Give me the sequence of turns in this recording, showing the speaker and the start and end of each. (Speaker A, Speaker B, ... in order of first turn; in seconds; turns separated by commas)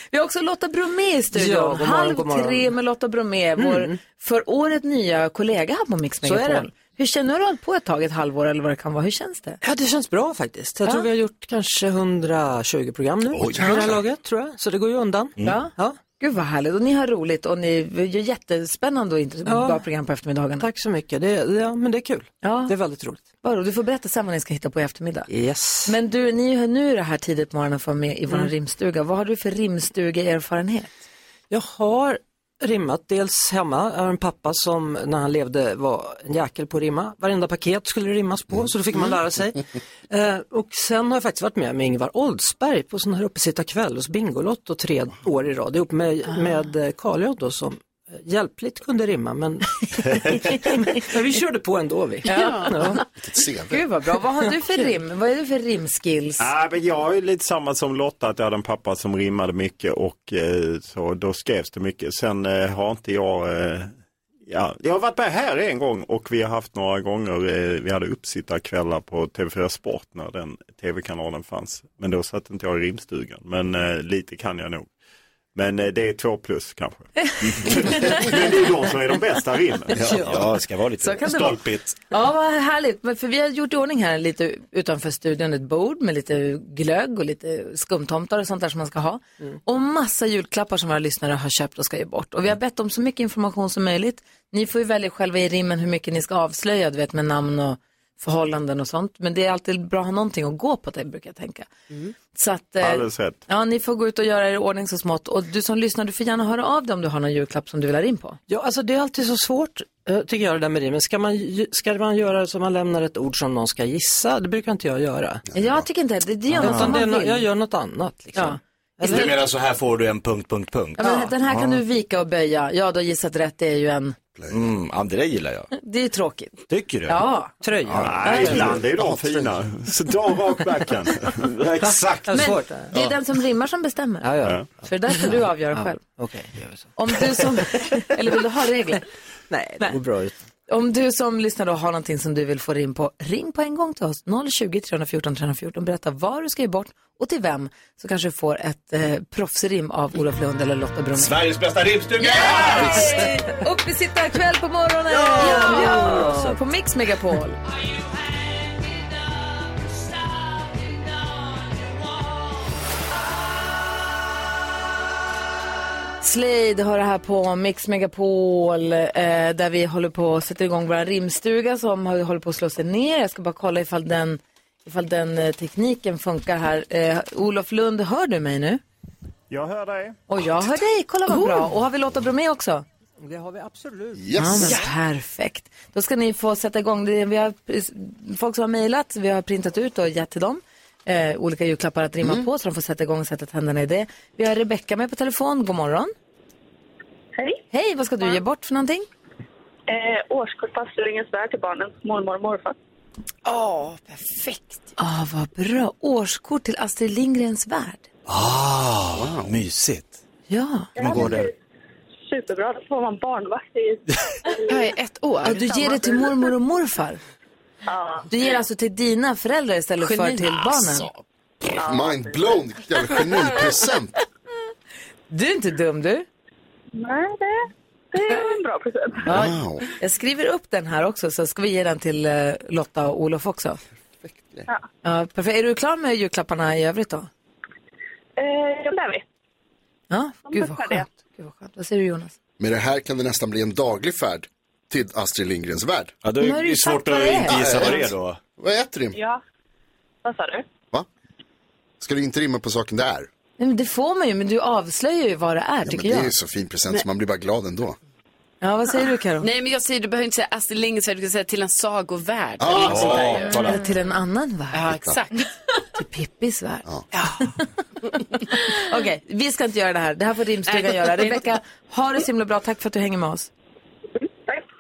Speaker A: 0.1-9.6, Speaker B: 1.3-2.7, Speaker B: 3.6-4.0, Speaker B: 6.2-6.7, Speaker B: 9.6-16.0, Speaker C: 13.3-14.0, Speaker A: 15.4-20.7, Speaker B: 19.4-19.8, Speaker B: 20.6-23.2, Speaker A: 22.4-22.7, Speaker A: 23.4-25.3, Speaker B: 25.3-25.9, Speaker A: 25.9-31.0, Speaker B: 31.5-53.0, Speaker A: 52.3-53.0, Speaker D: 52.3-52.7, Speaker E: 53.2-53.8, Speaker A: 53.7-56.5, Speaker F: 56.4-63.9, Speaker F: 64.5-74.9, Speaker F: 75.5-80.0, Speaker C: 79.9-82.0, Speaker A: 81.0-101.8, Speaker A: 102.3-108.4, Speaker F: 102.8-103.4, Speaker B: 108.5-115.5, Speaker E: 115.5-115.9, Speaker A: 115.5-117.5, Speaker B: 116.5-119.4, Speaker C: 116.6-117.0, Speaker A: 118.3-119.4, Speaker C: 119.0-121.6, Speaker A: 121.0-124.2, Speaker C: 124.5-125.7, Speaker A: 125.8-127.5, Speaker C: 126.7-127.2, Speaker B: 127.6-129.0, Speaker C: 127.9-128.7, Speaker F: 128.0-131.3, Speaker C: 131.4-132.6, Speaker B: 132.2-132.9, Speaker A: 132.3-136.0, Speaker B: 134.2-137.8, Speaker A: 137.0-139.0, Speaker B: 139.5-140.4, Speaker A: 140.7-151.4, Speaker C: 151.2-153.3, Speaker A: 152.2-157.6, Speaker B: 155.2-156.6, Speaker A: 166.2-178.8, Speaker F: 179.5-180.2, Speaker A: 180.3-182.8, Speaker B: 183.2-184.8, Speaker E: 184.2-184.7, Speaker A: 184.4-196.1, Speaker A: 197.7-199.1, Speaker G: 199.9-202.8, Speaker D: 203.5-204.8, Speaker A: 205.0-208.1, Speaker C: 208.3-210.2, Speaker E: 209.1-209.5, Speaker A: 210.5-210.9, Speaker G: 211.0-211.5, Speaker C: 211.0-211.5, Speaker E: 211.0-211.5, Speaker G: 212.3-214.9, Speaker D: 214.7-215.6, Speaker A: 215.4-217.2, Speaker G: 215.5-216.3, Speaker G: 217.9-218.3, Speaker A: 218.3-221.1, Speaker D: 220.0-220.9, Speaker E: 221.8-224.2, Speaker G: 221.8-222.6, Speaker A: 225.3-226.3, Speaker G: 226.9-229.3, Speaker E: 229.2-229.8, Speaker A: 229.3-233.8, Speaker E: 234.2-234.7, Speaker A: 235.0-237.3, Speaker G: 238.4-239.2, Speaker A: 240.1-242.3, Speaker G: 240.5-241.1, Speaker E: 242.6-246.2, Speaker C: 246.2-248.4, Speaker A: 246.4-248.0, Speaker E: 247.5-249.2, Speaker G: 249.1-249.4, Speaker G: 250.2-250.7, Speaker E: 252.0-253.3, Speaker A: 253.6-256.3, Speaker E: 255.8-258.0, Speaker A: 258.6-259.5, Speaker D: 259.4-263.7, Speaker E: 262.6-263.4, Speaker C: 262.8-263.8, Speaker A: 263.6-264.8, Speaker D: 264.7-265.5, Speaker E: 264.9-265.2, Speaker A: 265.9-266.8, Speaker D: 267.1-267.4, Speaker A: 267.4-267.7, Speaker A: 268.5-273.5, Speaker D: 270.7-271.4